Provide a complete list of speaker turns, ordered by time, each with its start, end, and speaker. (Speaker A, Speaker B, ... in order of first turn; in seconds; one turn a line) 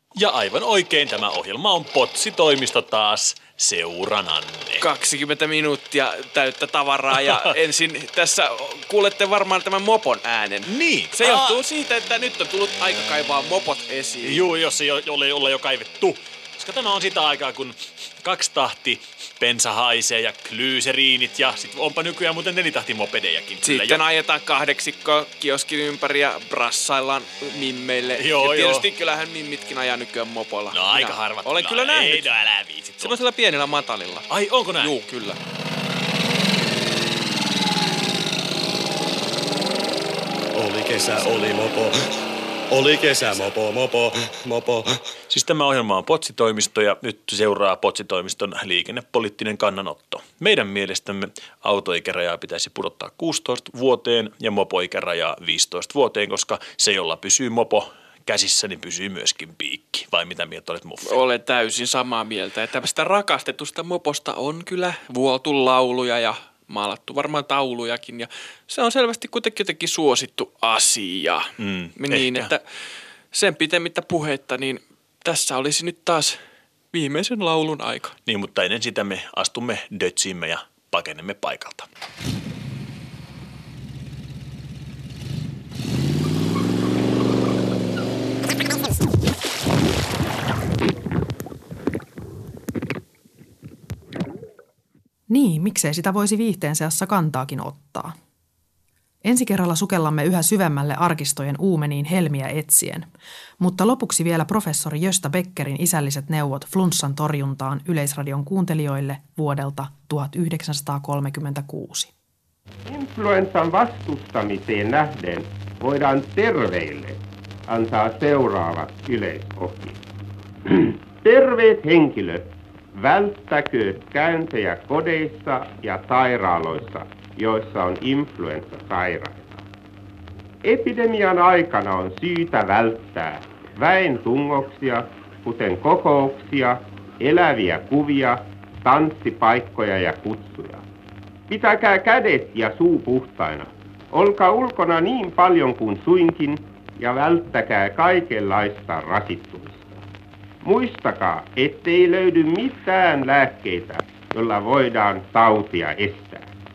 Speaker A: 0.1-4.8
Speaker B: 4.8-14.4
Speaker A: 10.7-11.6
Speaker A: 14.2-24.0
Speaker B: 23.6-32.3
Speaker A: 28.2-28.9
Speaker A: 30.7-33.2
Speaker B: 33.0-35.4
Speaker A: 34.3-35.0
Speaker C: 40.6-41.5
Speaker C: 42.8-44.8
Speaker A: 43.2-43.5
Speaker A: 45.3-61.2
Speaker B: 61.0-72.7
Speaker A: 71.6-72.5
Speaker B: 73.3-76.4
Speaker B: 76.9-78.1
Speaker A: 78.2-81.9
Speaker D: 95.3-98.1
Speaker D: 99.2-112.1
Speaker E: 112.8-120.0
Speaker E: 120.7-122.4
Speaker E: 122.9-129.6
Speaker E: 130.6-140.8
Speaker E: 141.5-149.9
Speaker E: 150.6-156.4